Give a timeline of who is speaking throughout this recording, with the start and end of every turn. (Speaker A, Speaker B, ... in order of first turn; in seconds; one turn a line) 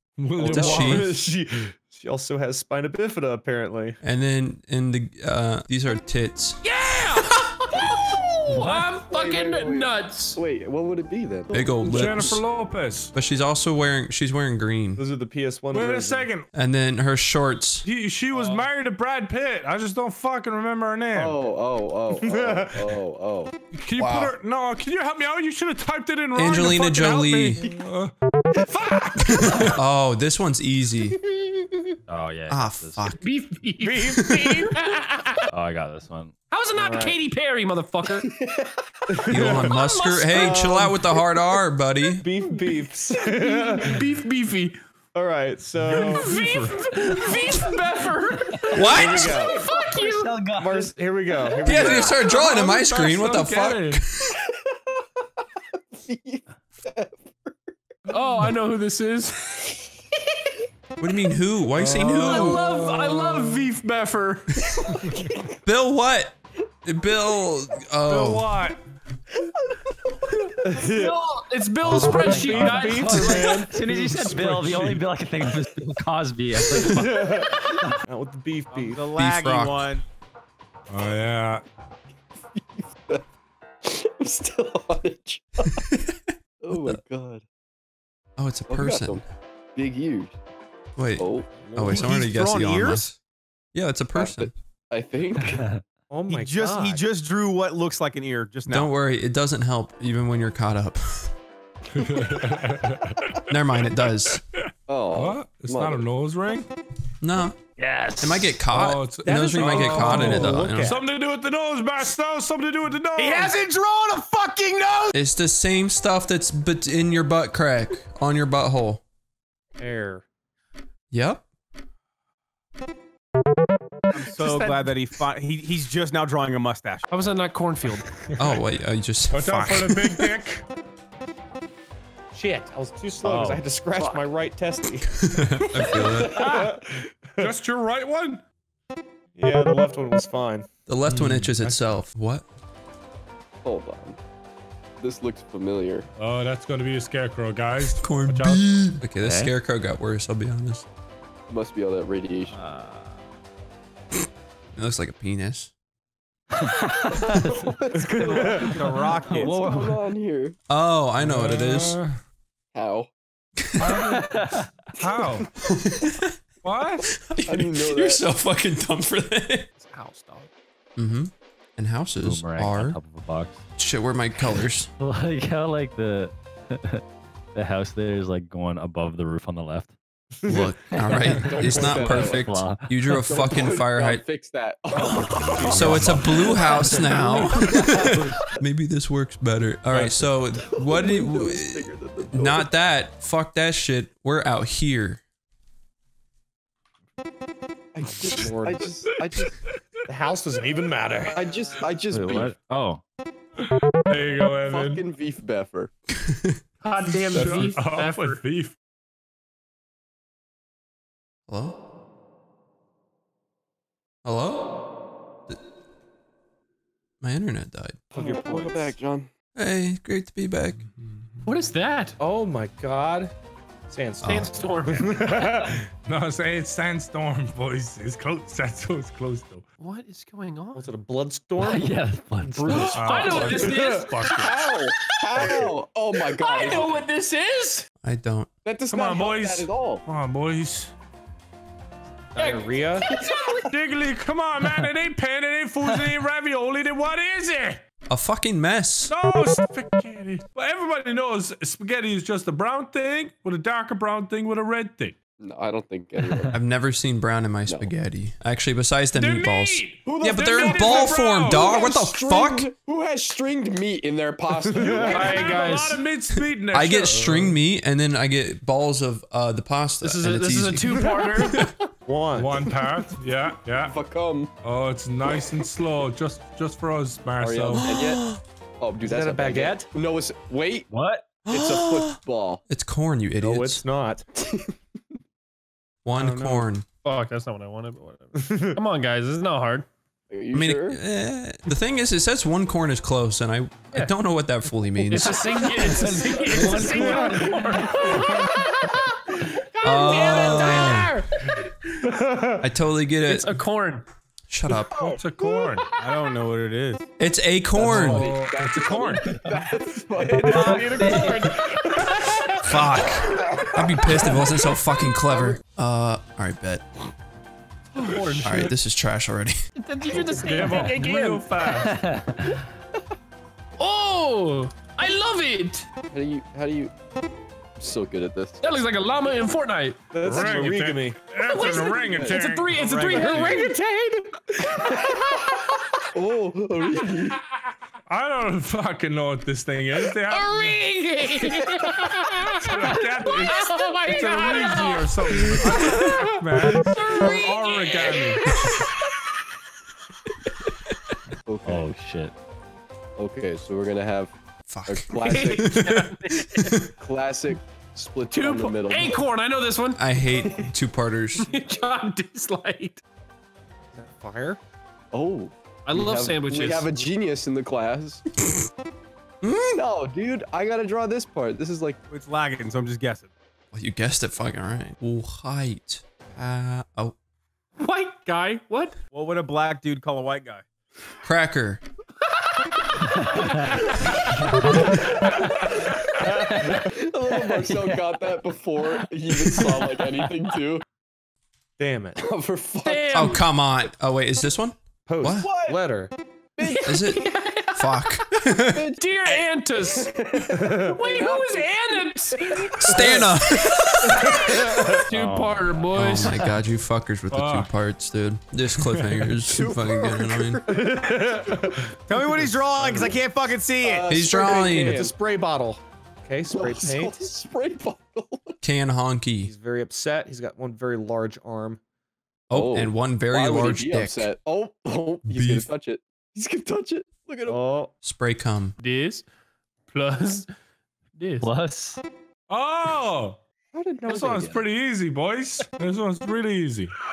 Speaker A: 0.2-1.1
Speaker B: 0.4-4.0
Speaker C: 0.4-1.1
Speaker C: 4.0-6.6
Speaker D: 6.6-10.4
Speaker E: 9.1-11.7
Speaker C: 11.5-12.4
Speaker A: 11.8-13.1
Speaker C: 13.1-15.0
Speaker B: 15.0-16.3
Speaker A: 15.7-16.5
Speaker C: 16.5-17.9
Speaker A: 17.8-21.4
Speaker D: 18.3-18.7
Speaker E: 21.1-23.5
Speaker B: 22.2-22.9
Speaker A: 23.7-29.8
Speaker C: 24.0-24.3
Speaker C: 26.3-27.6
Speaker C: 29.4-31.2
Speaker F: 32.1-33.1
Speaker C: 32.5-33.2
Speaker D: 33.2-34.1
Speaker B: 33.8-34.7
Speaker C: 34.3-34.7
Speaker D: 34.7-35.4
Speaker F: 35.5-36.3
Speaker D: 36.5-38.3
Speaker B: 36.7-37.2
Speaker E: 38.3-38.7
Speaker B: 39.1-39.7
Speaker C: 39.3-42.2
Speaker D: 39.5-40.8
Speaker B: 40.3-40.9
Speaker B: 42.1-44.1
Speaker D: 43.2-44.8
Speaker B: 45.1-46.3
Speaker A: 45.8-46.8
Speaker D: 46.0-50.3
Speaker C: 48.7-49.4
Speaker B: 48.9-49.5
Speaker F: 49.7-51.0
Speaker B: 50.5-52.4
Speaker C: 51.6-54.4
Speaker E: 51.7-52.1
Speaker A: 52.3-54.0
Speaker E: 54.6-54.9
Speaker E: 55.7-57.9
Speaker D: 58.1-59.7
Speaker A: 58.2-58.5
Speaker C: 61.0-62.6
Speaker B: 61.8-62.3
Speaker A: 62.2-63.7
Speaker D: 62.2-65.2
Speaker C: 65.6-68.4
Speaker A: 68.0-68.8
Speaker D: 70.3-73.7
Speaker B: 70.6-71.1
Speaker A: 71.9-72.8
Speaker F: 71.9-77.4
Speaker B: 72.0-73.7
Speaker A: 73.8-75.0
Speaker B: 76.7-79.1
Speaker G: 78.7-80.0
Speaker C: 79.2-79.9
Speaker A: 80.9-81.6
Speaker E: 82.5-83.2
Speaker E: 83.8-85.8
Speaker C: 85.9-87.0
Speaker E: 86.6-87.4
Speaker C: 88.4-89.2
Speaker E: 88.7-89.2
Speaker E: 89.8-90.4
Speaker C: 91.0-93.2
Speaker E: 91.2-91.5
Speaker B: 91.6-92.1
Speaker G: 91.8-93.0
Speaker C: 93.7-94.5
Speaker E: 94.1-95.6
Speaker F: 95.5-95.8
Speaker B: 96.1-97.0
Speaker G: 96.3-98.9
Speaker C: 98.7-101.3
Speaker A: 101.9-103.4
Speaker C: 103.5-104.4
Speaker A: 104.3-106.7
Speaker E: 104.9-106.0
Speaker C: 107.2-107.5
Speaker F: 107.8-108.7
Speaker C: 108.2-111.0
Speaker A: 108.7-113.6
Speaker B: 109.2-111.0
Speaker G: 113.1-115.1
Speaker C: 115.1-119.0
Speaker B: 119.8-120.2
Speaker C: 121.1-121.4
Speaker G: 124.1-127.0
Speaker D: 124.5-124.9
Speaker D: 127.1-128.1
Speaker C: 128.4-130.1
Speaker A: 129.3-130.6
Speaker B: 132.3-135.1
Speaker C: 135.2-136.4
Speaker B: 136.3-137.5
Speaker A: 136.3-136.7
Speaker A: 137.4-138.4
Speaker B: 139.4-140.7
Speaker C: 140.9-142.4
Speaker A: 141.1-141.9
Speaker E: 143.6-144.2
Speaker E: 145.0-146.1
Speaker A: 146.2-148.7
Speaker C: 147.8-150.8
Speaker F: 149.2-149.5
Speaker E: 151.5-152.6
Speaker F: 152.5-153.2
Speaker C: 154.8-155.7
Speaker F: 156.6-157.5
Speaker E: 157.6-158.8
Speaker B: 158.2-158.9
Speaker F: 158.2-160.1
Speaker G: 158.2-159.5
Speaker E: 159.3-160.6
Speaker C: 160.7-162.0
Speaker A: 161.2-162.2
Speaker E: 162.7-163.1
Speaker C: 163.7-164.2
Speaker F: 163.8-164.7
Speaker A: 165.0-165.5
Speaker C: 165.6-166.4
Speaker A: 166.6-167.1
Speaker C: 167.1-169.7
Speaker E: 167.4-168.2
Speaker D: 169.8-170.5
Speaker C: 171.0-173.0
Speaker F: 172.2-173.6
Speaker C: 173.8-174.9
Speaker F: 175.0-177.0
Speaker F: 177.5-179.9
Speaker B: 180.4-180.7
Speaker C: 180.5-184.2
Speaker F: 180.9-183.0
Speaker E: 181.2-182.6
Speaker E: 183.1-186.7
Speaker A: 185.6-186.2
Speaker C: 185.6-195.2
Speaker F: 186.6-188.4
Speaker E: 190.0-192.7
Speaker E: 197.9-199.5
Speaker B: 198.2-198.9
Speaker A: 199.3-199.7
Speaker B: 200.1-201.4
Speaker E: 201.3-202.5
Speaker F: 202.1-203.0
Speaker A: 203.9-205.1
Speaker E: 204.6-205.9
Speaker D: 206.8-208.4
Speaker A: 207.3-208.8
Speaker C: 211.5-211.8
Speaker C: 214.2-214.7
Speaker C: 217.2-218.0
Speaker E: 218.1-219.3
Speaker B: 218.1-219.0
Speaker C: 219.5-220.8
Speaker A: 221.0-221.3
Speaker D: 221.4-222.2
Speaker B: 222.2-223.3
Speaker B: 223.9-225.7
Speaker D: 224.2-225.7
Speaker A: 225.9-229.6
Speaker D: 229.8-230.8
Speaker B: 230.7-234.3
Speaker F: 231.6-233.1
Speaker D: 232.6-234.3
Speaker A: 232.9-234.7
Speaker E: 233.6-237.0
Speaker B: 235.4-235.7
Speaker D: 236.2-237.9
Speaker C: 238.0-238.5
Speaker E: 238.6-240.0
Speaker A: 238.9-240.9
Speaker B: 242.3-243.1
Speaker D: 242.4-243.1
Speaker A: 243.6-247.8
Speaker C: 248.1-249.1
Speaker A: 249.1-255.2
Speaker E: 255.4-256.5
Speaker F: 256.2-256.6
Speaker C: 256.5-262.7
Speaker E: 257.6-257.9
Speaker A: 259.1-261.8
Speaker E: 260.0-265.6
Speaker B: 264.6-265.5
Speaker A: 264.9-267.6
Speaker D: 265.1-266.0
Speaker C: 266.7-271.6
Speaker D: 270.0-271.6
Speaker B: 271.5-272.7
Speaker A: 272.4-274.0
Speaker E: 273.8-274.5
Speaker A: 274.6-277.9
Speaker E: 277.4-278.3
Speaker C: 277.8-278.4
Speaker E: 278.8-280.9
Speaker B: 279.0-279.9
Speaker D: 280.9-281.2
Speaker C: 281.5-282.1
Speaker E: 281.5-282.6
Speaker C: 282.7-283.8
Speaker B: 283.4-284.2
Speaker E: 284.4-284.7
Speaker C: 286.0-286.8
Speaker B: 286.2-286.7
Speaker D: 287.0-289.9
Speaker B: 288.4-288.8
Speaker E: 290.3-291.0
Speaker C: 290.5-296.1
Speaker D: 295.1-302.0
Speaker A: 296.7-297.3
Speaker A: 298.2-298.4
Speaker C: 299.8-301.1
Speaker E: 300.2-300.6
Speaker B: 302.1-302.6
Speaker C: 302.6-303.5
Speaker D: 303.2-304.1
Speaker C: 304.5-305.1
Speaker E: 304.9-305.2
Speaker A: 305.0-305.9
Speaker G: 305.9-307.1
Speaker C: 307.2-308.3
Speaker E: 307.7-311.1
Speaker A: 307.8-309.4
Speaker B: 310.2-311.7
Speaker F: 310.3-311.5
Speaker D: 311.4-312.6
Speaker C: 312.6-316.9
Speaker E: 314.1-315.6
Speaker D: 317.9-318.7
Speaker C: 318.4-319.6
Speaker D: 319.8-321.4
Speaker A: 320.4-322.0
Speaker F: 321.9-322.5
Speaker D: 323.8-325.9
Speaker E: 326.1-326.9
Speaker E: 327.8-328.6
Speaker D: 328.6-330.7
Speaker B: 330.1-331.2
Speaker A: 330.2-332.8
Speaker D: 331.4-334.1
Speaker G: 332.7-333.7
Speaker B: 333.5-334.1
Speaker D: 334.9-335.4
Speaker E: 336.1-337.4
Speaker A: 338.1-340.8
Speaker D: 340.2-348.9
Speaker A: 342.6-348.4
Speaker E: 351.4-351.9
Speaker F: 351.6-352.3
Speaker E: 353.2-354.3
Speaker C: 354.7-356.7
Speaker E: 354.9-355.8
Speaker D: 355.2-356.8
Speaker E: 357.0-359.2
Speaker D: 358.3-360.0
Speaker C: 359.9-361.5
Speaker D: 361.4-363.0
Speaker B: 363.9-364.6
Speaker E: 365.1-368.2
Speaker D: 365.9-366.9
Speaker C: 369.4-369.8
Speaker E: 369.7-372.0
Speaker G: 372.1-373.3
Speaker C: 373.7-377.1
Speaker D: 377.8-378.9
Speaker G: 379.1-380.6
Speaker C: 381.2-381.8
Speaker D: 383.2-385.7
Speaker F: 384.5-384.8
Speaker E: 385.6-390.8
Speaker F: 386.6-386.8
Speaker F: 387.5-388.3
Speaker B: 391.8-392.2
Speaker E: 392.1-393.2
Speaker D: 392.8-393.4
Speaker C: 393.1-395.5
Speaker B: 395.1-396.1
Speaker E: 395.4-395.8
Speaker E: 396.6-396.9
Speaker D: 396.6-397.8
Speaker C: 396.8-398.8
Speaker E: 398.6-401.9
Speaker D: 399.0-400.1
Speaker B: 400.7-400.9
Speaker D: 400.8-403.1
Speaker C: 402.8-404.1
Speaker E: 402.9-403.9
Speaker D: 403.9-406.4
Speaker B: 404.2-405.0
Speaker F: 405.1-405.9
Speaker C: 405.9-410.6
Speaker A: 407.3-407.7
Speaker A: 408.7-409.3
Speaker E: 409.5-411.0
Speaker B: 410.7-411.8
Speaker G: 412.1-414.2
Speaker E: 413.8-415.2
Speaker C: 414.1-415.1
Speaker B: 414.3-417.2
Speaker E: 416.4-418.6
Speaker C: 418.6-419.5
Speaker B: 419.4-421.8
Speaker C: 422.5-424.3
Speaker E: 422.5-427.6
Speaker C: 425.2-425.7
Speaker B: 427.4-427.9
Speaker C: 428.0-428.8
Speaker D: 428.8-429.2
Speaker D: 429.9-430.5
Speaker D: 431.2-431.5
Speaker F: 431.4-432.0
Speaker A: 432.5-433.4
Speaker B: 433.7-434.6
Speaker A: 434.1-436.9